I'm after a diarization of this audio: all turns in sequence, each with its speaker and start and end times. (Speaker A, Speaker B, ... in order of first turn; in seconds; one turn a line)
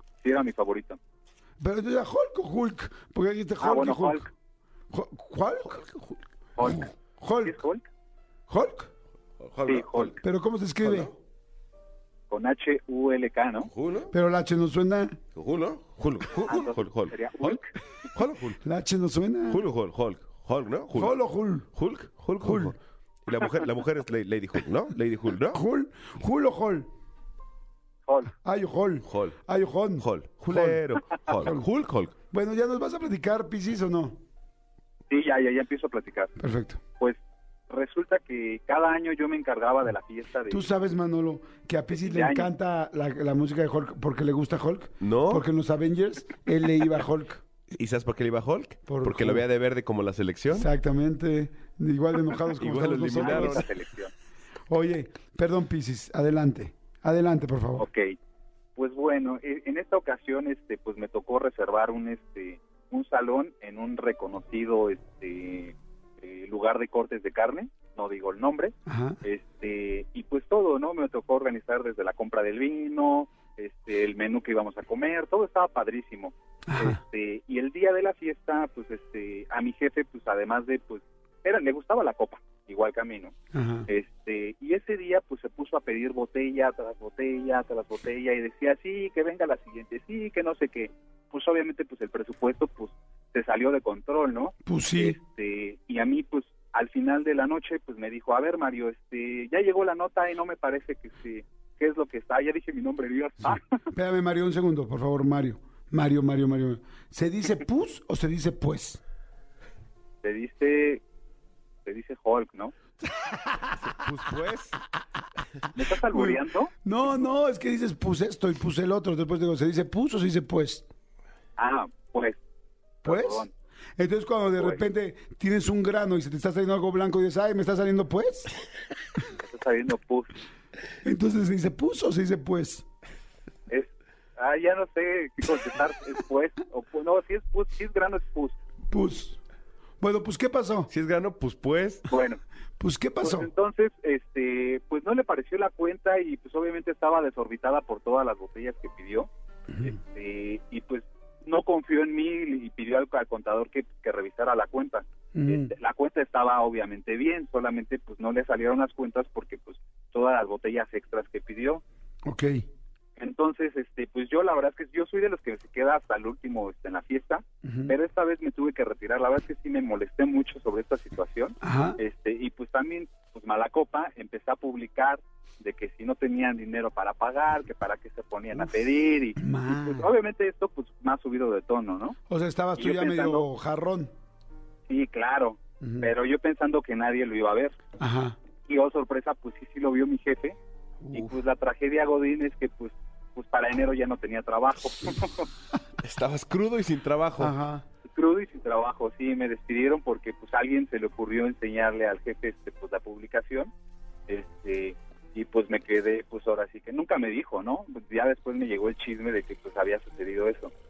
Speaker A: 0.2-1.0
Speaker B: 1.6-4.3
Speaker A: 3.6-4.2
Speaker B: 4.9-6.0
Speaker A: 6.5-7.8
Speaker B: 6.6-7.6
Speaker B: 8.5-8.9
Speaker C: 9.4-10.2
Speaker A: 9.6-10.2
Speaker B: 10.2-11.1
Speaker C: 10.8-11.1
Speaker A: 12.3-13.7
Speaker C: 13.6-14.1
Speaker B: 14.1-15.2
Speaker C: 15.3-17.6
Speaker A: 16.4-17.7
Speaker C: 18.1-18.6
Speaker B: 18.6-19.6
Speaker C: 19.5-21.1
Speaker B: 20.9-21.7
Speaker C: 21.7-25.6
Speaker B: 22.4-22.7
Speaker B: 25.5-26.9
Speaker A: 28.1-28.3
Speaker B: 28.4-31.7
Speaker C: 29.1-29.4
Speaker C: 30.0-32.1
Speaker B: 32.3-34.2
Speaker A: 35.1-36.3
Speaker B: 36.4-36.8
Speaker A: 37.7-40.7
Speaker B: 40.5-47.4
Speaker A: 41.9-42.5
Speaker C: 45.0-45.4
Speaker C: 47.7-50.7
Speaker B: 48.9-49.5
Speaker B: 50.5-53.7
Speaker C: 52.6-53.7
Speaker A: 52.7-54.1
Speaker B: 54.7-57.9
Speaker A: 57.8-58.2
Speaker A: 58.8-83.3
Speaker B: 68.8-69.2
Speaker B: 76.7-77.0
Speaker B: 83.5-83.9
Speaker A: 83.9-103.8
Speaker B: 94.7-95.2
Speaker B: 103.5-109.0
Speaker A: 110.2-111.0
Speaker A: 111.8-112.7
Speaker C: 113.8-114.8
Speaker A: 115.7-116.7
Speaker B: 116.1-120.8
Speaker A: 121.6-122.4
Speaker A: 123.0-123.5
Speaker B: 123.0-128.5
Speaker A: 129.4-130.3
Speaker B: 131.0-132.8
Speaker A: 133.7-138.6
Speaker B: 138.9-139.4
Speaker B: 140.0-140.9
Speaker C: 140.9-142.1
Speaker A: 142.1-142.4
Speaker B: 142.8-143.5
Speaker A: 143.2-149.3
Speaker A: 149.8-161.8
Speaker B: 155.3-155.7
Speaker B: 162.2-162.7
Speaker A: 163.2-182.2
Speaker B: 167.6-167.9
Speaker B: 171.6-172.0
Speaker B: 179.4-180.1
Speaker B: 182.3-184.1
Speaker A: 182.8-183.4
Speaker A: 184.9-187.8
Speaker B: 185.8-186.1
Speaker B: 188.0-188.4
Speaker A: 188.7-190.6
Speaker B: 191.0-191.3
Speaker A: 191.1-195.5
Speaker C: 196.0-197.5
Speaker B: 197.4-197.8
Speaker A: 198.1-203.7
Speaker A: 204.3-210.7